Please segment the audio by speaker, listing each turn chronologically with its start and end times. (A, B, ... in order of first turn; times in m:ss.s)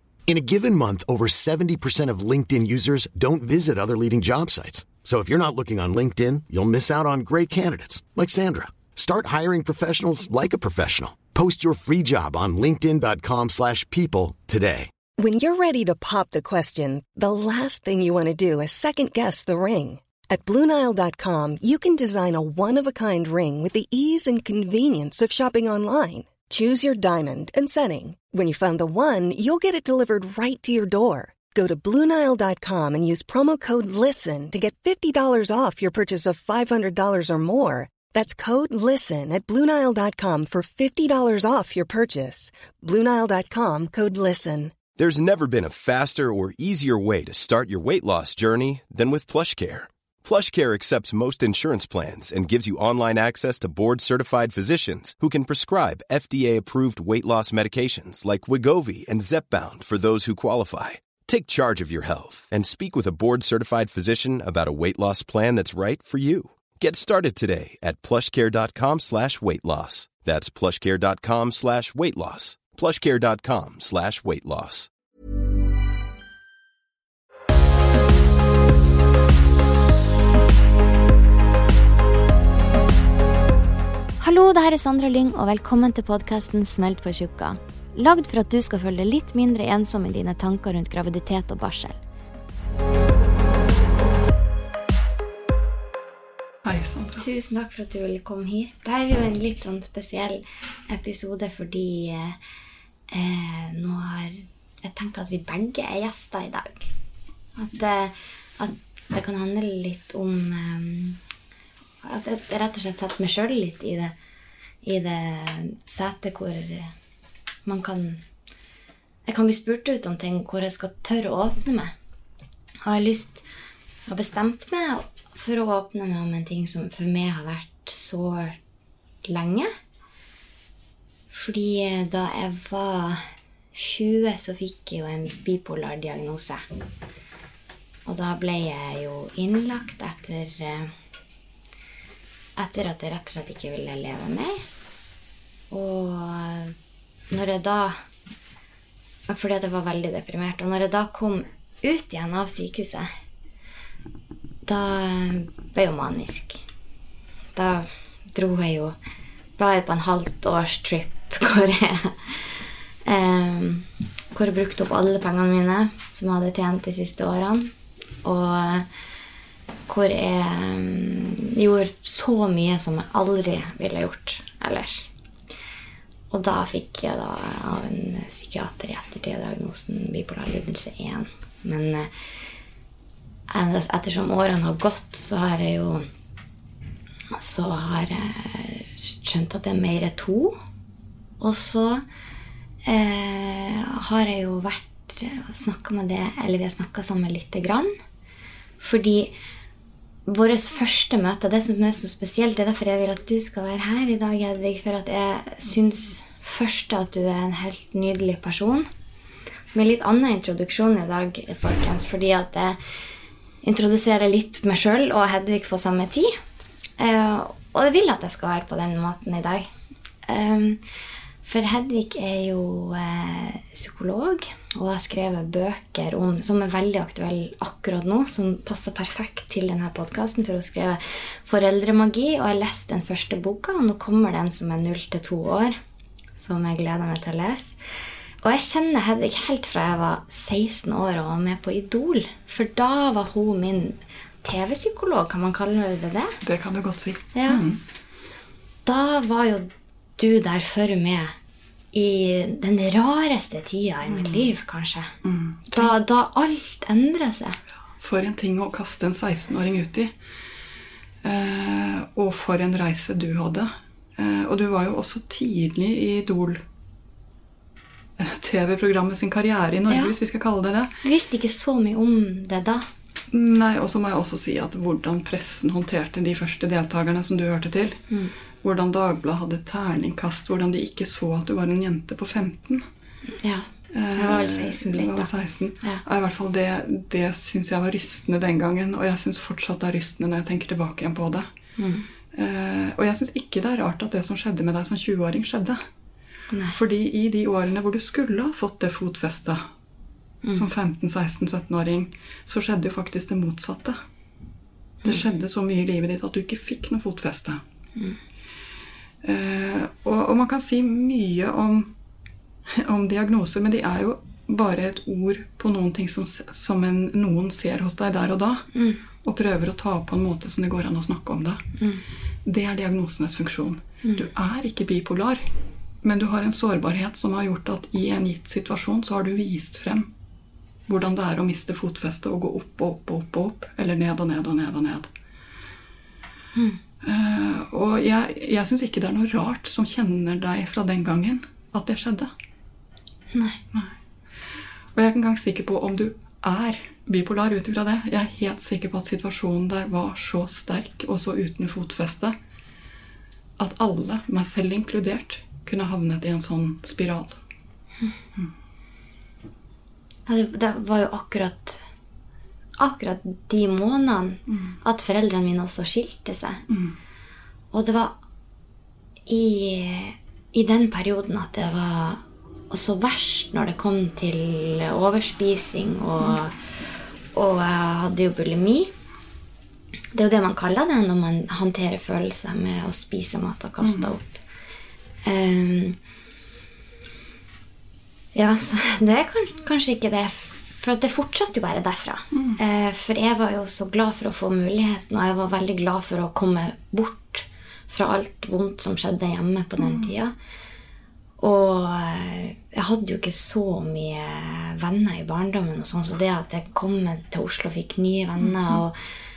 0:00.3-0:14.9 A
0:15.2-0:44.7 B
0:45.0-1:14.9 C
1:24.2-1:32.0 D
1:36.6-1:37.2 E
1:37.2-1:42.4 D
1:43.1-1:46.9 D
1:47.6-1:51.2 D
1:52.0-1:54.1 D
1:54.8-1:56.9 D
1:57.6-1:58.2 D
1:59.2-2:01.9 D
2:02.8-2:03.4 D
2:04.1-2:08.6 D
2:09.2-2:09.7 D
2:11.3-2:16.6 D
2:18.0-2:20.9 D
2:22.6-2:24.6 D
2:25.7-2:26.7 D
2:27.3-2:28.0 D
2:29.3-2:33.1 D
2:34.6-2:36.6 D
2:37.5-2:39.0 D
2:39.6-2:47.7 D
2:48.2-2:48.8 D
2:49.9-2:55.1 D
2:56.3-3:02.1 D
3:03.5-3:06.0 D
3:07.3-3:10.6 D
3:11.4-3:12.0 D
3:12.9-3:17.9 D
3:18.8-3:19.3 D
3:20.2-3:28.9 D
3:29.7-3:32.8 D
3:33.6-3:36.3 D
3:37.0-3:39.7 D
3:40.3-3:40.8 D
3:41.4-3:55.8 D
3:56.4-3:57.8 D
3:58.4-4:06.4 D
4:06.4-4:07.8 E
4:07.3-4:07.6 D
4:08.8-4:11.4 D
4:11.9-4:15.1 D
4:14.1-4:14.4 E
4:15.2-4:16.0 E
4:15.7-4:17.6 D
4:18.0-4:20.1 E
4:21.2-4:26.6 E
4:28.2-4:31.0 E
4:29.9-4:30.1 D
4:31.0-4:32.9 D
4:33.3-4:38.0 E
4:38.6-4:42.8 E
4:43.3-4:45.3 D
4:43.9-4:51.5 E
4:51.8-4:52.0 D
4:52.3-4:55.8 E
4:56.5-4:56.8 D
4:56.7-4:59.6 E
5:00.5-5:04.0 E
5:05.0-5:07.6 E
5:09.2-5:11.9 E
5:12.7-5:18.7 E
5:18.7-5:19.0 D
5:19.2-5:21.6 E
5:21.8-5:22.0 D
5:22.4-5:25.4 E
5:26.0-5:30.1 E
5:30.9-5:35.1 E
5:37.0-5:42.3 E
5:43.3-5:43.6 D
5:44.9-5:52.4 E
5:53.6-5:57.4 E
6:00.3-6:01.8 D
6:02.8-6:06.6 D
6:04.5-6:04.8 E
6:06.7-6:07.0 E
6:07.7-6:08.2 D
6:09.3-6:16.6 D
6:17.3-6:18.9 D
6:20.1-6:24.4 D
6:23.8-6:24.1 E
6:25.2-6:26.0 D
6:28.3-6:40.3 D
6:32.3-6:32.6 E
6:39.8-6:40.1 E
6:41.4-6:49.0 D
6:48.4-6:48.8 E